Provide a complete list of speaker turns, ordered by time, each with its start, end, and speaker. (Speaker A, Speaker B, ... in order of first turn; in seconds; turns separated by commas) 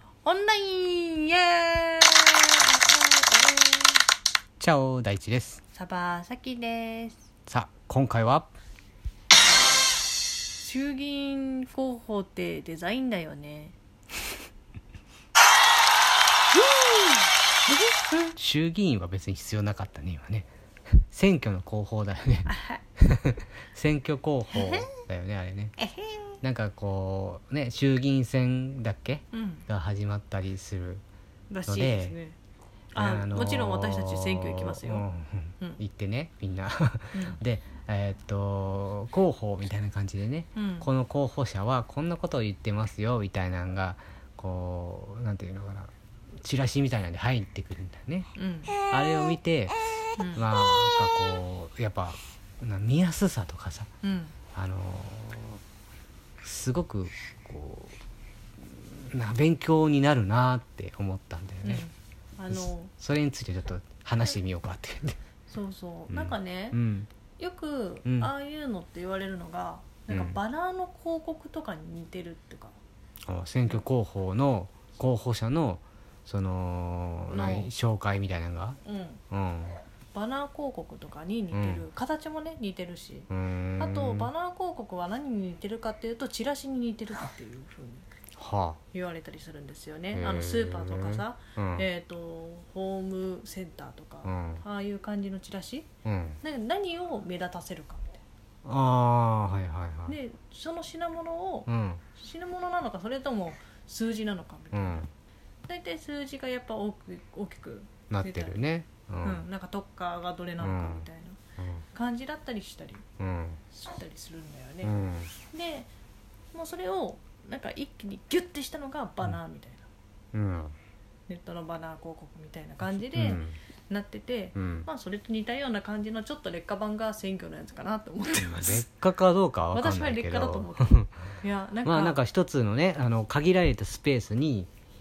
Speaker A: 0.2-4.0, Speaker B: 4.6-5.6, Speaker A: 5.7-7.2, Speaker B: 7.5-8.5, Speaker A: 10.6-13.8, Speaker A: 16.7-17.0, Speaker B: 18.3-25.8, Speaker A: 24.5-24.8, Speaker A: 25.8-26.2, Speaker B: 26.4-31.0, Speaker A: 29.3-29.6, Speaker A: 31.5-32.4, Speaker B: 31.6-32.1, Speaker A: 32.9-35.1, Speaker B: 33.0-49.8, Speaker A: 37.1-37.4, Speaker A: 40.5-40.9, Speaker A: 48.3-48.8, Speaker A: 50.2-50.4, Speaker B: 50.3-53.9, Speaker A: 54.0-54.4, Speaker B: 54.5-55.6, Speaker B: 56.4-58.0, Speaker B: 58.6-61.8, Speaker A: 61.6-62.9, Speaker B: 62.5-65.2, Speaker A: 65.5-66.8, Speaker B: 66.1-67.1, Speaker A: 67.4-72.8, Speaker B: 68.0-68.3, Speaker B: 70.1-70.4, Speaker B: 73.3-78.8, Speaker A: 77.3-77.7, Speaker A: 78.8-79.2, Speaker B: 79.3-79.8, Speaker A: 80.1-88.0, Speaker B: 81.5-81.8, Speaker B: 83.3-84.3, Speaker B: 88.4-88.8, Speaker A: 88.9-95.9, Speaker B: 90.1-91.8, Speaker B: 94.2-94.6, Speaker B: 96.0-96.4, Speaker A: 96.4-98.2, Speaker B: 98.6-100.2, Speaker A: 100.1-105.1, Speaker B: 101.7-102.0, Speaker B: 104.7-105.1, Speaker A: 105.7-108.5, Speaker B: 108.1-109.4, Speaker A: 109.2-111.4, Speaker B: 110.6-111.1, Speaker B: 111.6-111.8, Speaker A: 111.9-113.0, Speaker B: 113.2-113.6, Speaker A: 113.7-115.9, Speaker B: 114.8-115.3, Speaker A: 116.5-119.9, Speaker B: 120.3-120.8, Speaker A: 121.3-128.9, Speaker B: 123.1-123.5, Speaker B: 124.5-124.9, Speaker B: 128.3-134.7, Speaker A: 129.7-132.2